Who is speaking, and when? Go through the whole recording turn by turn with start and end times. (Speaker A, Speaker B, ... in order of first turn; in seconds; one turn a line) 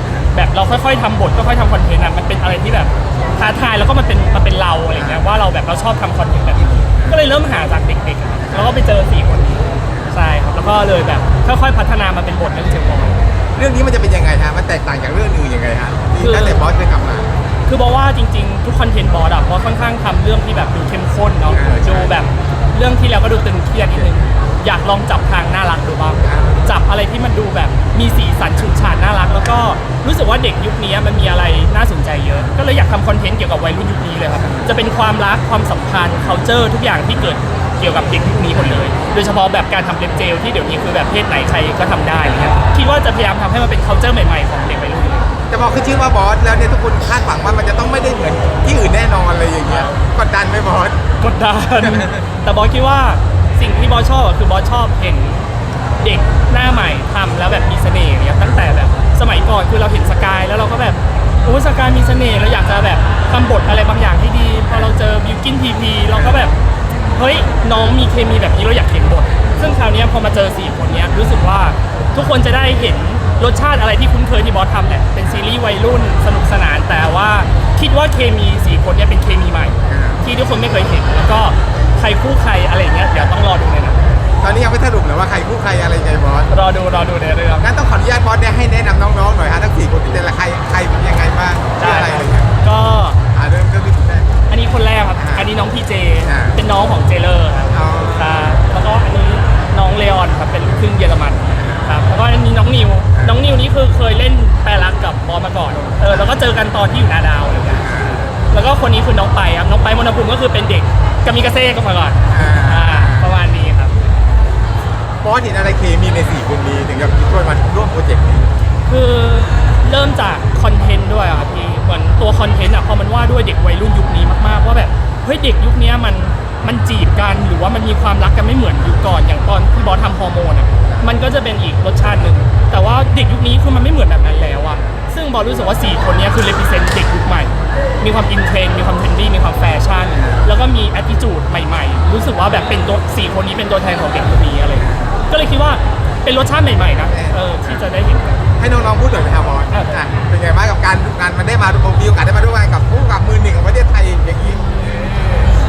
Speaker A: 0.3-13.2
Speaker B: 5.0-5.2
Speaker B: 8.5-8.8
Speaker B: 13.6-17.3
Speaker A: 16.2-16.6
Speaker A: 17.6-45.3
Speaker B: 21.5-22.3
Speaker B: 26.2-26.7
Speaker B: 45.5-51.0
Speaker A: 49.7-49.9
Speaker A: 51.2-55.5
Speaker B: 51.8-52.1
Speaker A: 56.0-66.5
Speaker B: 66.1-66.5
Speaker A: 67.1-84.0
Speaker B: 79.8-80.2
Speaker B: 84.4-86.5
Speaker A: 86.5-87.7
Speaker B: 87.6-92.5
Speaker A: 91.8-93.2
Speaker B: 93.3-94.3
Speaker A: 94.5-107.9
Speaker B: 95.2-95.5
Speaker B: 96.2-96.5
Speaker B: 97.7-98.5
Speaker B: 101.5-101.9
Speaker B: 103.1-103.4
Speaker B: 105.8-106.3
Speaker B: 107.6-108.3
Speaker A: 108.5-113.9
Speaker B: 112.3-113.3
Speaker B: 115.2-118.5
Speaker A: 118.9-148.4
Speaker B: 140.1-140.4
Speaker B: 147.1-147.8
Speaker B: 148.6-155.5
Speaker A: 149.7-150.1